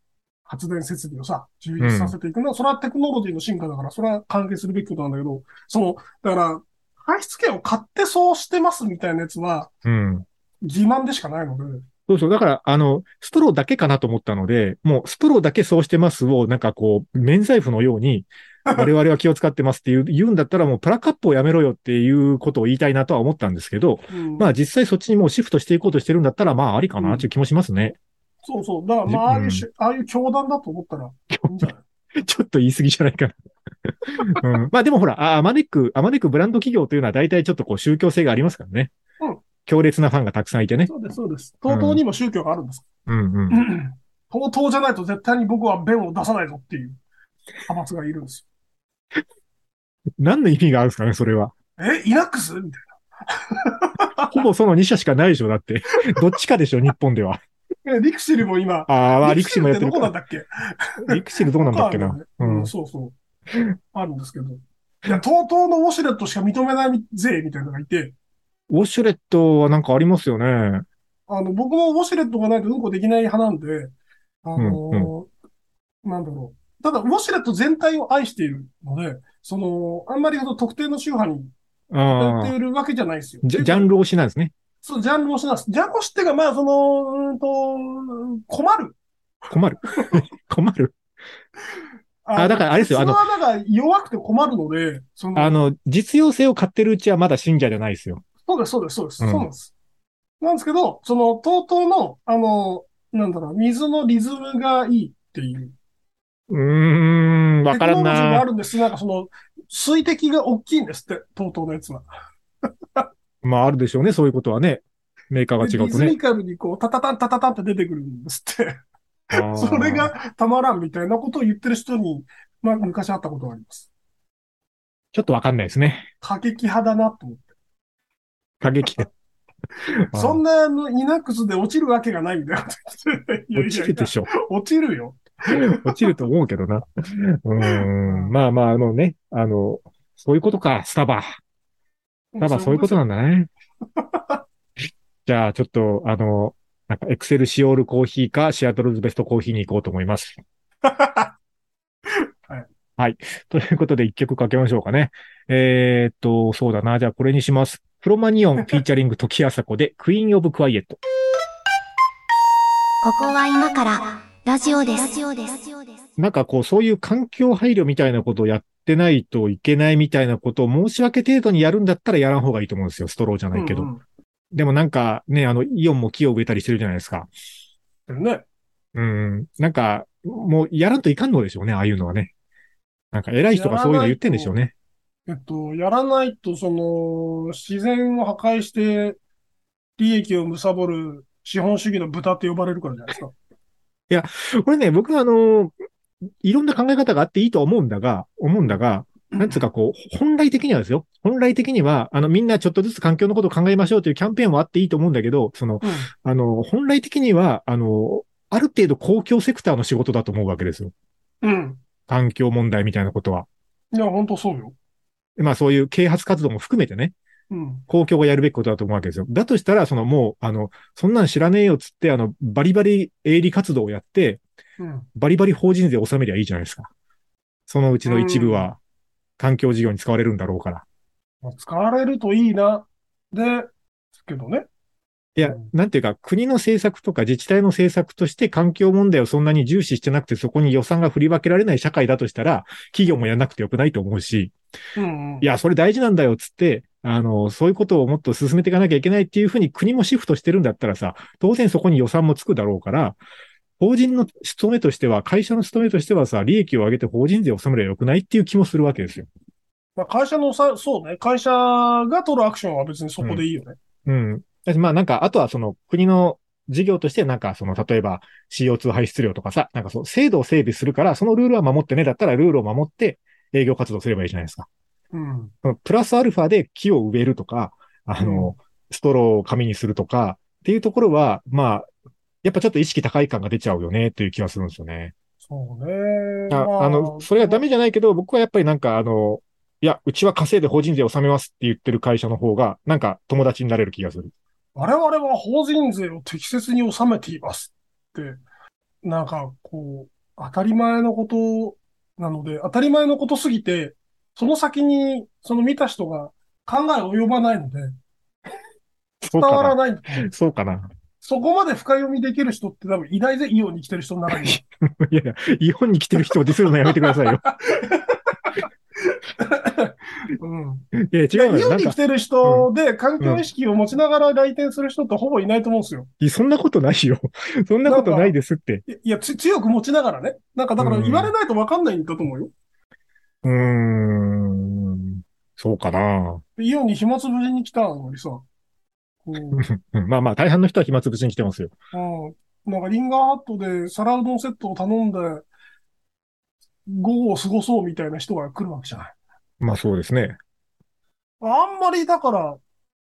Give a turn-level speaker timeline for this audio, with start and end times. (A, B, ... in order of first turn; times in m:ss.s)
0:00.5-0:09.7 A
0:01.8-0:02.1 B
0:09.8-0:10.2 B
0:10.6-0:11.8 A
0:12.1-0:28.0 B
0:18.6-0:18.9 A
0:24.1-0:24.5 A
0:27.0-0:27.2 A
0:28.4-0:31.8 A
0:29.1-0:29.6 B
0:31.3-0:33.4 B
0:33.9-0:38.9 B
0:39.6-0:40.9 B
0:40.9-0:42.8 A
0:41.7-0:42.0 B
0:43.1-0:43.6 B
0:43.5-0:47.0 A
0:47.6-0:48.4 A
0:50.2-0:51.5 B
0:51.8-0:54.4 A
0:54.3-0:57.4 B
0:57.8-1:03.1 A
0:58.9-1:00.1 B
1:01.0-1:02.7 B
1:03.9-1:08.1 A
1:08.7-1:10.8 B
1:11.3-1:13.9 A
1:14.4-1:15.3 A
1:14.6-1:15.1 B
1:16.0-1:21.5 A
1:21.9-1:22.5 B
1:22.2-1:23.9 A
1:23.4-1:24.5 B
1:24.8-1:29.0 A
1:29.5-1:31.0 B
1:32.2-1:35.6 A
1:32.4-1:33.2 B
1:35.4-1:38.2 B
1:38.4-1:39.7 A
1:39.2-1:39.5 B
1:40.4-1:45.7 A
1:46.5-1:48.5 B
1:47.7-1:52.0 A
1:53.4-1:56.2 B
1:55.6-1:58.8 A
1:59.3-2:00.1 B
1:59.3-2:03.9 A
2:05.1-2:06.1 B
2:06.2-2:07.4 A
2:08.6-2:09.1 B
2:10.0-2:10.4 B
2:10.1-2:16.1 A
2:13.6-2:14.3 B
2:15.5-2:21.4 B
2:17.6-2:18.3 A
2:22.3-2:23.0 A
2:22.4-2:23.5 B
2:24.0-2:24.4 A
2:25.2-2:30.4 B
2:30.8-2:31.3 A
2:33.0-2:41.0 B
2:43.0-2:46.0 C
2:46.2-2:53.9 B
2:53.5-2:54.0 A
2:54.5-2:57.3 B
2:58.1-2:58.4 A
2:58.9-3:02.3 B
3:03.1-3:04.7 B
3:03.5-3:04.6 A
3:05.3-3:09.2 A
3:10.0-3:13.3 A
3:14.1-3:15.7 B
3:16.4-3:30.9 B
3:19.3-3:19.6 A
3:25.8-3:26.1 A
3:31.4-3:31.8 A
3:32.1-3:33.5 B
3:33.9-3:34.7 A
3:35.4-3:37.1 B
3:37.5-3:37.8 A
3:37.9-3:44.4 B
3:44.8-3:45.1 A
3:45.2-3:46.9 B
3:47.7-3:48.8 B
3:48.0-3:48.7 A
3:49.4-3:50.8 B
3:51.4-3:54.7 A
3:55.4-4:04.5 B
3:55.4-3:55.7 A
4:05.0-4:05.5 A
4:05.4-4:13.2 B
4:13.8-4:19.3 B
4:20.0-4:23.8 A
4:24.0-4:34.7 B
4:35.1-4:35.5 A
4:35.6-4:41.9 B
4:38.2-4:38.5 A
4:42.4-4:45.1 B
4:45.4-4:47.6 A
4:46.5-4:54.3 B
4:54.7-4:58.4 A
4:59.0-5:07.9 A
5:09.2-5:10.9 B
5:09.2-5:10.3 A
5:11.2-5:14.6 A
5:14.3-5:17.4 B
5:16.2-5:26.1 A
5:21.0-5:22.7 B
5:23.2-5:23.4 B
5:26.2-5:28.8 B
5:27.8-5:28.3 A
5:28.8-5:32.5 A
5:30.8-5:31.3 B
5:33.4-5:36.4 B
5:36.6-5:38.4 A
5:39.2-5:39.6 A
5:39.5-5:41.7 B
5:41.9-5:45.4 A
5:46.8-5:49.1 A
5:49.6-5:50.4 B
5:51.4-5:52.6 A